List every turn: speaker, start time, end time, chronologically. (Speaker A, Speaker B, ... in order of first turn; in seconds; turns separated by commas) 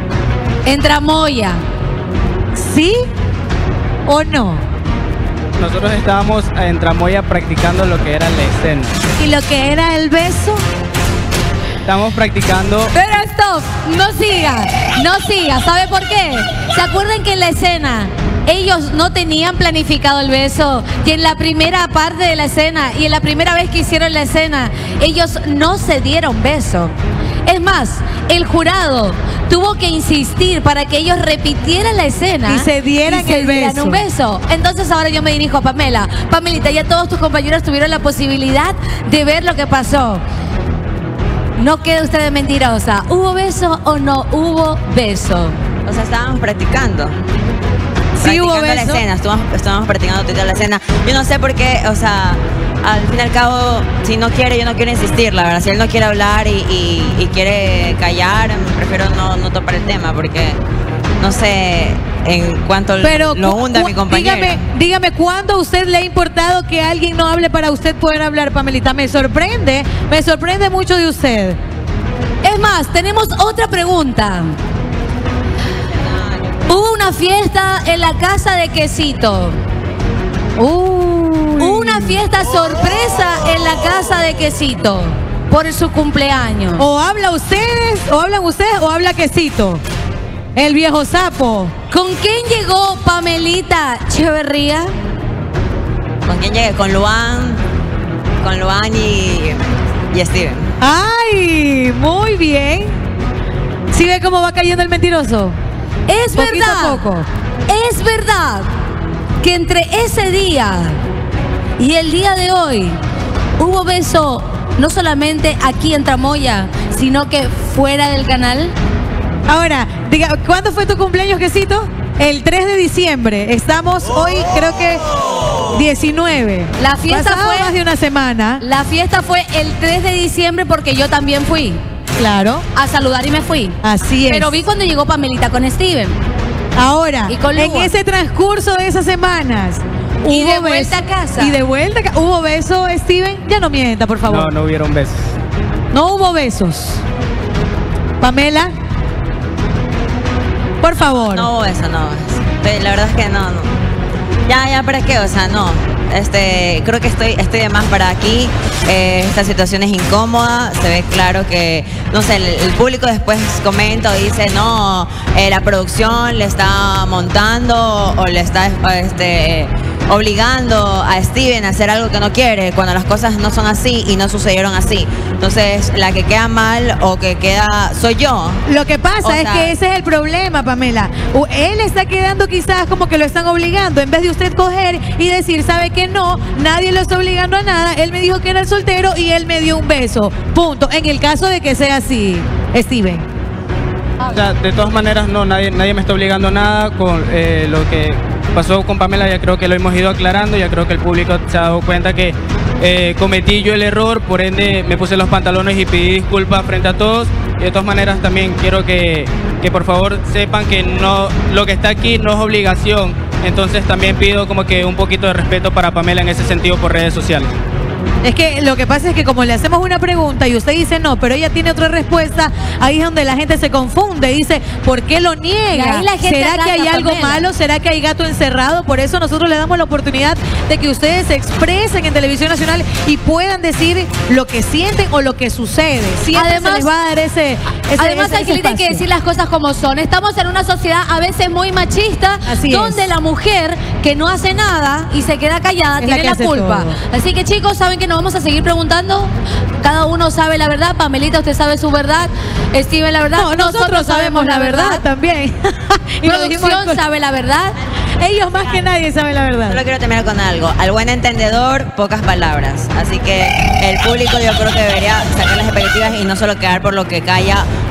Speaker A: 0.6-1.6, Speaker B: 2.5-3.0, Speaker B: 4.0-4.7, Speaker C: 5.6-9.0, Speaker B: 9.2-10.6, Speaker C: 11.8-12.9, Speaker A: 12.9-26.9, Speaker A: 27.4-40.2, Speaker B: 32.4-34.0, Speaker A: 41.5-45.6, Speaker D: 45.8-47.2, Speaker B: 48.2-49.0, Speaker D: 48.2-60.6, Speaker D: 61.2-64.6, Speaker B: 63.0-71.6, Speaker A: 72.4-74.5, Speaker D: 75.9-76.4, Speaker A: 76.7-79.6, Speaker B: 80.6-82.2, Speaker A: 81.6-86.8, Speaker B: 86.8-89.8, Speaker B: 90.5-91.7, Speaker A: 91.9-94.9, Speaker D: 96.2-97.6, Speaker D: 98.4-100.7, Speaker B: 100.8-102.9, Speaker B: 103.9-105.6, Speaker A: 106.1-107.1, Speaker B: 106.3-107.3, Speaker A: 107.7-108.7, Speaker A: 109.4-111.0, Speaker A: 111.8-113.0, Speaker A: 113.6-118.7, Speaker B: 119.5-125.0, Speaker B: 125.6-128.6, Speaker A: 126.8-127.7, Speaker A: 128.6-131.8, Speaker B: 132.2-132.7, Speaker A: 132.7-136.2, Speaker B: 133.8-134.6, Speaker B: 136.7-144.5, Speaker A: 137.3-137.9, Speaker A: 140.2-141.6, Speaker C: 144.3-145.3, Speaker B: 145.9-147.0, Speaker B: 148.2-148.7, Speaker B: 150.8-151.5, Speaker D: 151.3-153.7, Speaker D: 154.5-178.6, Speaker B: 178.7-193.2, Speaker D: 179.2-179.7, Speaker C: 194.2-217.5, Speaker B: 218.2-239.0, Speaker A: 225.7-227.5, Speaker A: 236.3-236.9, Speaker A: 238.0-255.0, Speaker B: 242.4-243.0, Speaker B: 246.0-246.9, Speaker B: 253.3-257.0, Speaker A: 256.2-257.8, Speaker B: 258.2-259.8, Speaker D: 259.7-267.7